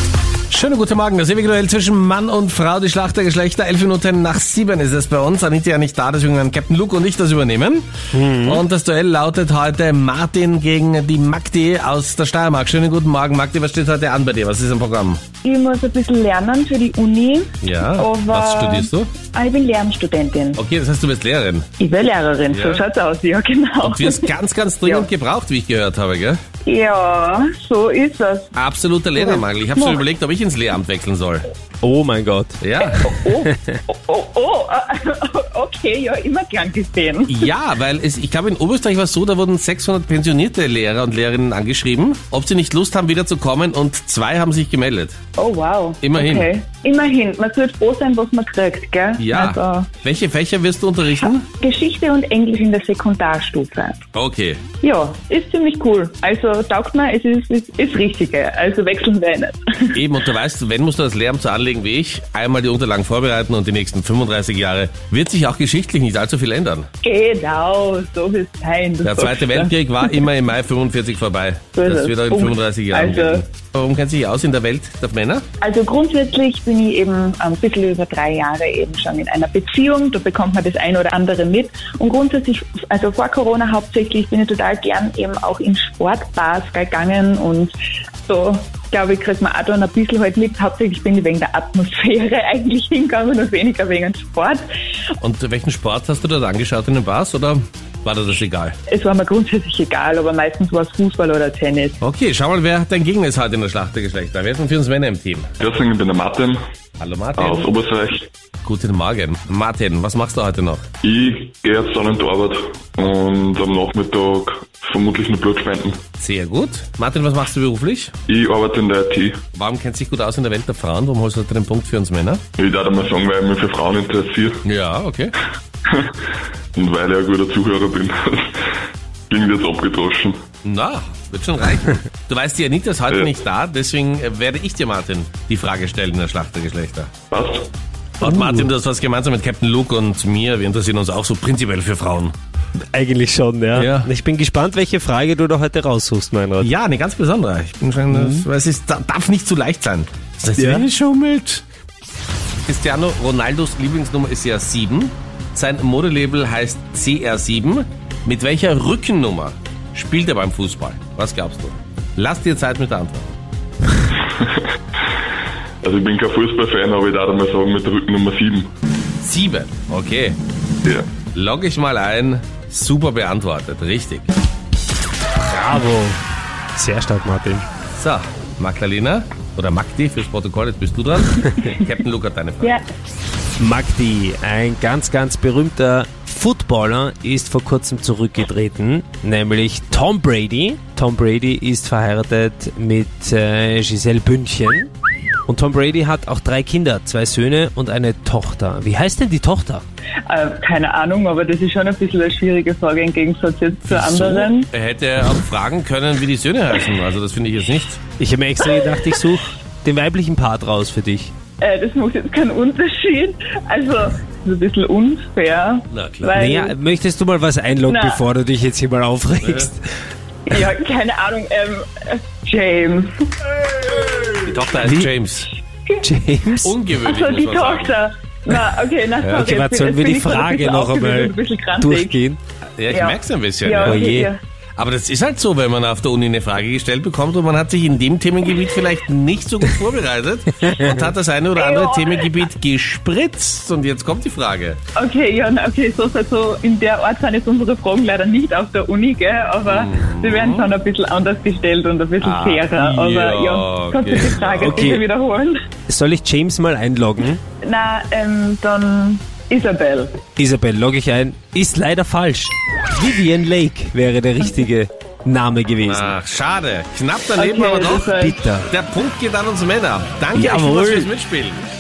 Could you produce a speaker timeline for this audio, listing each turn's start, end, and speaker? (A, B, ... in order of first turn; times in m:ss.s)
0:00.5-0:07.9 A
0:08.1-0:08.6 B
0:08.4-0:15.2 A
0:15.4-0:20.6 C
0:17.6-0:19.1 A
0:20.6-0:21.7 A
0:21.8-0:24.3 C
0:22.5-0:22.8 A
0:23.8-0:26.4 A
0:24.8-0:25.1 C
0:26.6-0:28.5 C
0:28.5-0:31.5 A
0:29.1-0:30.0 C
0:31.8-0:33.7 B
0:32.6-0:33.0 A
0:32.9-0:37.5 C
0:37.3-0:45.2 A
0:45.4-0:49.9 C
0:46.0-0:46.5 A
0:49.2-0:51.5 A
0:51.5-0:54.0 C
0:54.1-0:54.6 A
0:54.8-1:00.0 C
0:59.9-1:06.9 A
1:07.0-1:10.2 C
1:09.0-1:15.4 A
1:11.8-1:13.4 C
1:15.6-1:27.7 C
1:28.3-1:34.7 C
1:35.2-1:38.8 A
1:38.9-1:42.0 C
1:42.0-1:45.5 A
1:45.6-1:46.6 D
1:47.0-1:47.7 A
1:47.4-1:48.3 D
1:48.6-1:50.8 A
1:51.0-1:56.0 D
1:56.2-1:58.1 A
1:58.3-1:59.4 D
1:59.6-2:02.4 A
2:02.6-2:04.6 D
2:04.6-2:05.3 A
2:06.8-2:08.6 D
2:09.3-2:10.4 D
2:10.6-2:17.1 A
2:17.3-2:17.7 D
2:18.2-2:22.3 A
2:18.2-2:18.7 B
2:22.9-2:26.7 B
2:23.8-2:24.1 A
2:26.6-2:31.6 A
2:28.1-2:28.4 B
2:30.6-2:30.8 B
2:32.6-2:43.3 A
2:45.8-2:48.7 D
2:49.2-2:50.4 A
2:51.3-2:54.3 A
2:55.5-2:56.2 B
2:56.8-2:57.7 B
2:58.0-3:02.8 A
3:03.6-3:14.9 B
3:15.5-3:19.8 B
3:20.3-3:24.7 C
3:23.9-3:28.0 A
3:28.2-3:31.3 B
3:31.6-3:36.8 C
3:35.9-3:36.3 A
3:36.3-3:39.8 B
3:37.8-3:38.2 C
3:39.4-3:39.7 A
3:40.5-3:43.3 C
3:44.4-3:45.5 A
3:44.8-3:45.1 B
3:46.0-3:46.7 B
3:46.6-3:48.0 A
3:47.0-3:52.2 C
3:49.2-3:52.4 B
3:52.8-3:54.0 A
3:52.9-3:54.4 C
3:53.8-3:54.3 B
3:54.8-4:04.8 A
4:01.5-4:02.4 C
4:05.0-4:15.6 C
4:09.6-4:10.7 A
4:12.2-4:14.9 A
4:14.6-4:15.0 B
4:15.9-4:17.4 B
4:17.6-4:20.2 C
4:20.4-4:26.1 B
4:25.8-4:28.1 A
4:27.4-4:28.4 C
4:28.1-4:28.7 B
4:28.7-4:31.6 A
4:30.3-4:31.1 B